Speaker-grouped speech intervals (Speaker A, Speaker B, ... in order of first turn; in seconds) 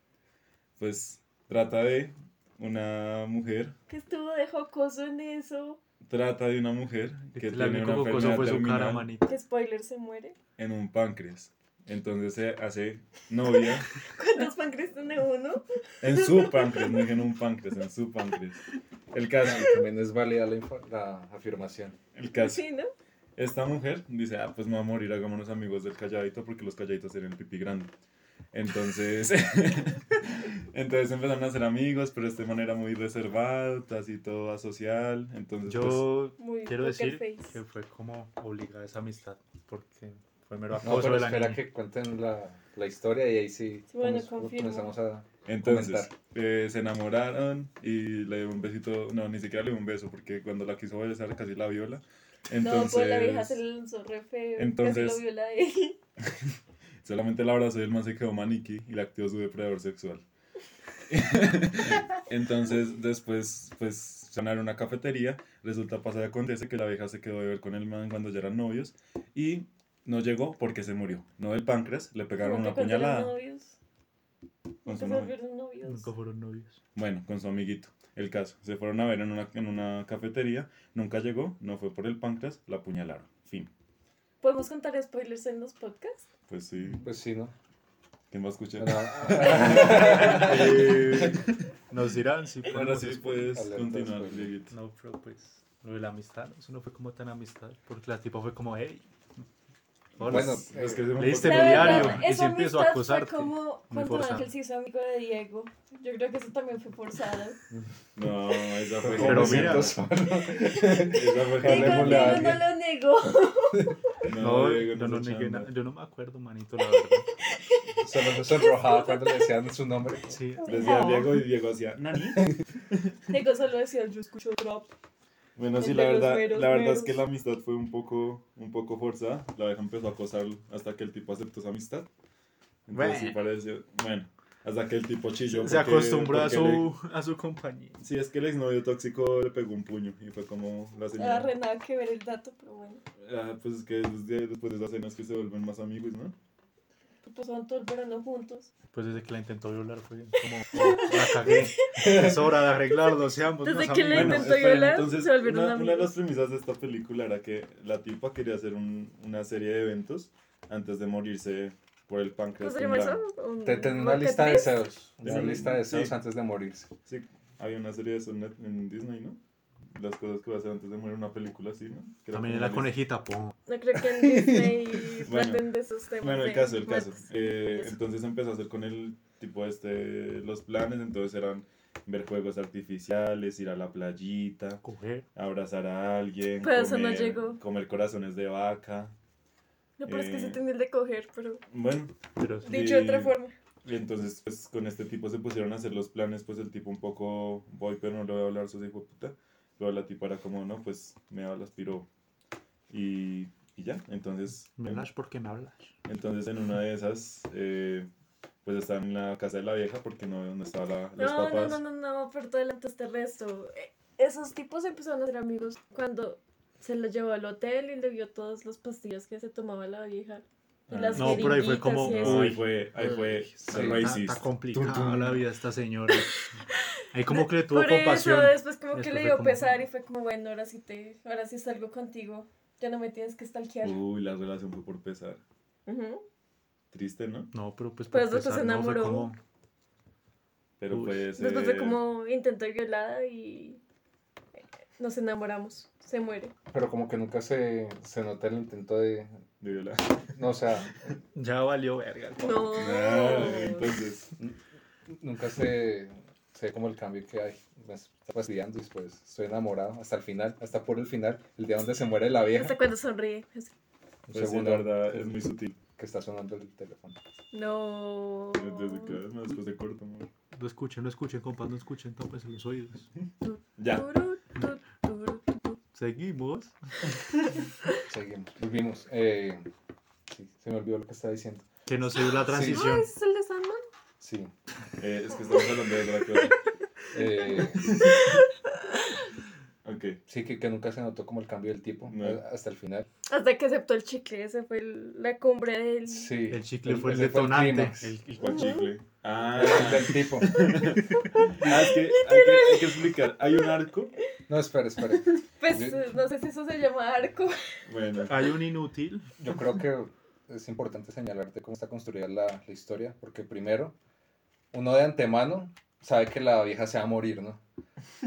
Speaker A: 0.8-3.8, 6.1-9.1, 10.6-13.9, 16.0-19.7, 22.1-22.6, 23.4-27.9, 28.5-36.1, 45.5-53.6, 54.6-55.2, 57.0-60.2, 61.1-73.3, 74.9-75.3, 77.0-83.7, 86.5-87.1, 88.3-91.7, 92.7-94.7, 100.2-102.2, 108.2-110.0, 111.1-112.6, 114.2-115.7, 120.7-123.3, 125.6-132.1, 132.9-136.9, 138.0-141.5, 143.2-146.3, 154.1-163.2, 165.2-166.2, 167.1-169.4, 169.9-172.9, 175.3-175.7, 176.2-184.8, 185.3-189.1, 190.1-190.6, 191.7-192.1, 192.6-202.1, 202.9-205.1, 206.1-208.1, 208.7-211.8, 220.9-225.4, 233.8-235.4, 236.9-237.5, 240.8-242.0, 249.6-250.4, 252.7-254.3, 264.3-265.8, 268.5-270.3, 273.8-274.1, 285.0-286.6, 287.8-288.4, 289.8-290.2, 292.1-292.4, 298.4-304.2, 307.9-308.4
Speaker B: 3.9-5.8, 9.3-10.3, 14.0-17.1, 22.3-22.9, 36.4-37.6, 43.9-44.9, 52.6-56.0, 72.4-73.8, 74.8-76.1, 84.4-86.3, 101.4-107.6, 110.5-114.2, 117.3-119.5, 120.6-121.4, 123.3-124.9, 125.8-127.2, 141.2-143.0, 147.2-148.7, 150.8-152.3, 153.1-156.2, 162.6-164.8, 173.7-178.0, 186.6-187.6, 190.0-191.6, 192.6-193.6, 211.2-222.6, 226.2-234.0, 235.9-236.2, 238.1-239.3, 241.3-243.8, 245.0-246.5, 252.4-253.9, 262.5-263.7, 267.5-269.2, 273.4-275.8, 282.2-283.8, 287.2-289.3, 293.3-296.3, 298.5-298.9, 301.6-303.0, 305.3-307.6
Speaker C: 7.3-9.3, 35.7-41.6, 75.8-76.8, 90.3-90.6, 91.9-93.5, 94.7-99.1, 100.2-104.5, 109.2-110.0, 114.4-117.3, 120.3-120.9, 132.9-133.4, 135.5-138.0, 148.9-154.5, 172.3-173.6, 184.8-185.3, 192.4-192.8, 204.8-205.9, 221.1-222.7, 223.6-226.4, 227.1-229.7, 237.5-239.4, 240.9-241.3, 251.3-252.7, 270.6-273.1, 275.9-276.8, 281.9-283.1, 296.5-298.7, 308.3-309.2
Speaker D: 19.4-22.0, 40.8-46.1, 87.0-87.5, 88.8-91.4, 93.5-94.5, 100.2-101.2, 109.0-112.7, 118.0-120.4, 152.0-152.4, 163.6-166.9, 174.0-175.0, 223.6-224.1, 246.7-249.4, 250.3-251.0, 254.4-262.8, 264.3-264.9, 266.0-267.2, 278.1-279.7, 280.3-281.6, 282.4-282.9, 284.2-284.5, 287.1-287.9, 290.3-293.1, 296.1-298.1, 299.5-300.7, 304.5-306.0, 309.4-313.9, 314.7-317.6